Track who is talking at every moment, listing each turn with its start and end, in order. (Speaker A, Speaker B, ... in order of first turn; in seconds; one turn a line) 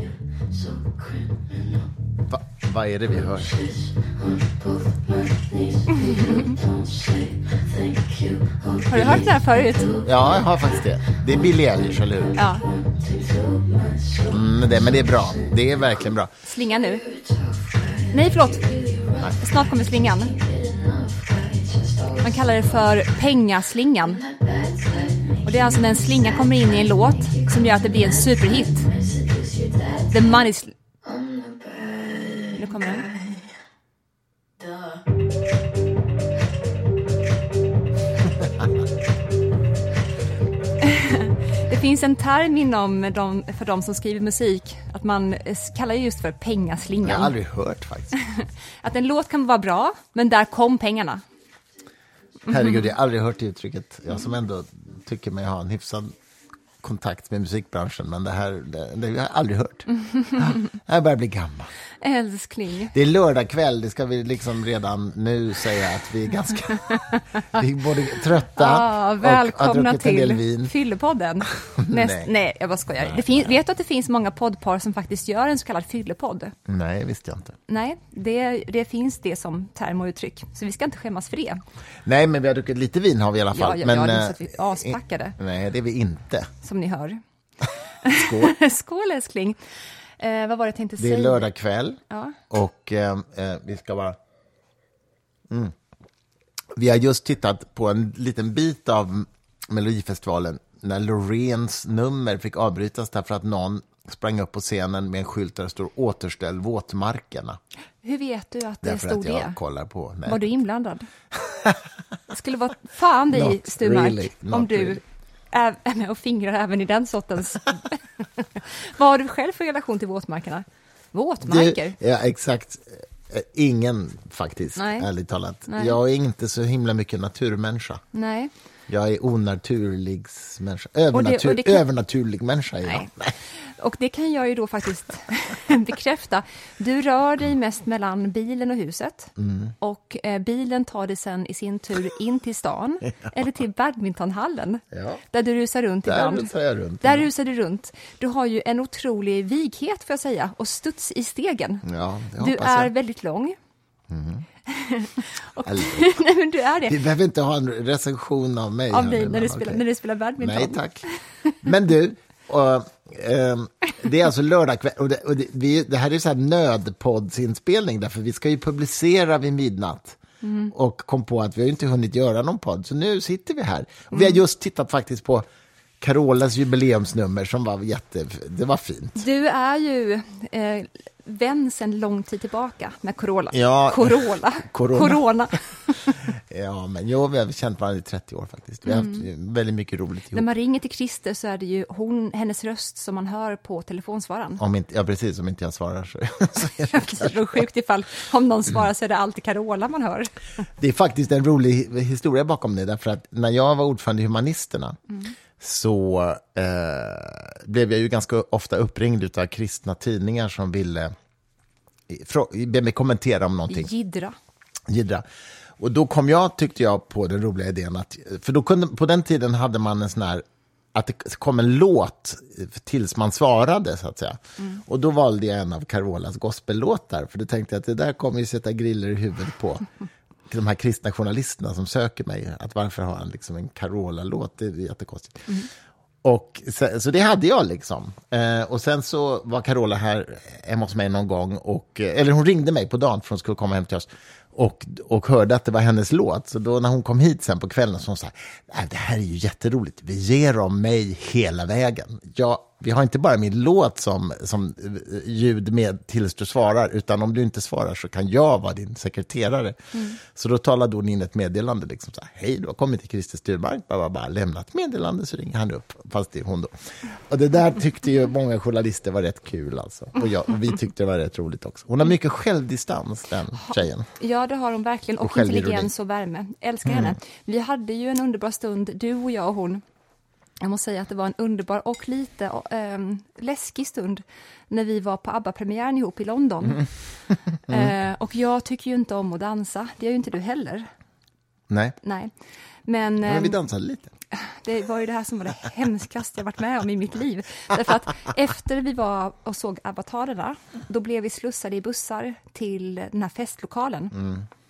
Speaker A: 2.2-3.8
Speaker B: 5.9-6.6
Speaker B: 8.8-10.0
Speaker A: 8.9-9.3
Speaker A: 9.9-12.4
Speaker B: 12.3-12.7
Speaker A: 14.2-16.3
Speaker B: 16.4-17.1
Speaker B: 18.1-18.8
Speaker B: 19.3-20.4
Speaker B: 22.2-24.3
Speaker B: 25.4-28.9
Speaker B: 30.1-30.8
Speaker B: 32.5-33.1
Speaker B: 40.8-47.4
Speaker A: 47.0-48.2
Speaker B: 48.1-51.2
Speaker A: 52.5-56.1
Speaker A: 56.8-61.7
Speaker B: 59.9-60.7
Speaker B: 62.0-63.0
Speaker A: 62.9-70.7
Speaker B: 66.7-67.6
Speaker B: 68.1-76.6
Speaker A: 71.5-72.3
Speaker A: 73.0-73.5
Speaker A: 76.7-77.6
Speaker B: 77.7-81.6
Speaker A: 82.0-86.5
Speaker B: 83.5-85.4
Speaker B: 86.6-91.5
Speaker A: 88.1-88.5
Speaker A: 91.0-94.2
Speaker B: 92.1-92.4
Speaker A: 95.5-95.8
Speaker A: 96.8-107.6
Speaker B: 108.0-109.6
Speaker A: 108.8-110.5
Speaker B: 110.3-111.1
Speaker A: 111.3-111.9
Speaker B: 112.3-122.0
Speaker A: 113.3-115.0
Speaker A: 121.4-128.0
Speaker B: 124.8-125.1
Speaker B: 125.7-126.0
Speaker B: 128.1-128.5
Speaker A: 128.9-133.4
Speaker B: 131.1-131.8
Speaker B: 132.8-146.5
Speaker A: 139.4-139.7
Speaker A: 144.9-145.2
Speaker A: 146.1-147.3
Speaker B: 147.0-151.9
Speaker A: 151.8-152.9
Speaker B: 152.4-153.6
Speaker A: 154.1-154.5
Speaker B: 154.7-157.0
Speaker A: 155.6-156.2
Speaker A: 156.8-159.8
Speaker B: 158.9-161.6
Speaker A: 160.4-161.1
Speaker A: 161.6-170.2
Speaker B: 170.4-170.7
Speaker A: 170.7-175.4
Speaker A: 176.0-179.2
Speaker B: 179.2-186.3
Speaker A: 183.5-185.2
Speaker A: 186.2-190.5
Speaker B: 188.8-189.3
Speaker B: 190.3-194.6
Speaker A: 194.6-197.6
Speaker B: 196.9-200.4
Speaker A: 200.8-205.0
Speaker A: 205.6-211.1
Speaker A: 212.1-213.9
Speaker B: 213.7-214.4
Speaker A: 214.9-215.2
Speaker A: 215.8-229.9
Speaker A: 230.5-235.7
Speaker A: 236.2-274.1
Speaker B: 259.9-260.2
Speaker B: 273.6-279.8
Speaker A: 275.2-275.9
Speaker A: 276.9-277.2
Speaker B: 280.6-286.9
Speaker B: 287.7-290.9
Speaker A: 291.7-292.0
Speaker B: 292.0-292.3
Speaker B: 292.9-293.6
Speaker A: 293.2-294.1
Speaker B: 294.3-304.2
Speaker A: 304.2-304.5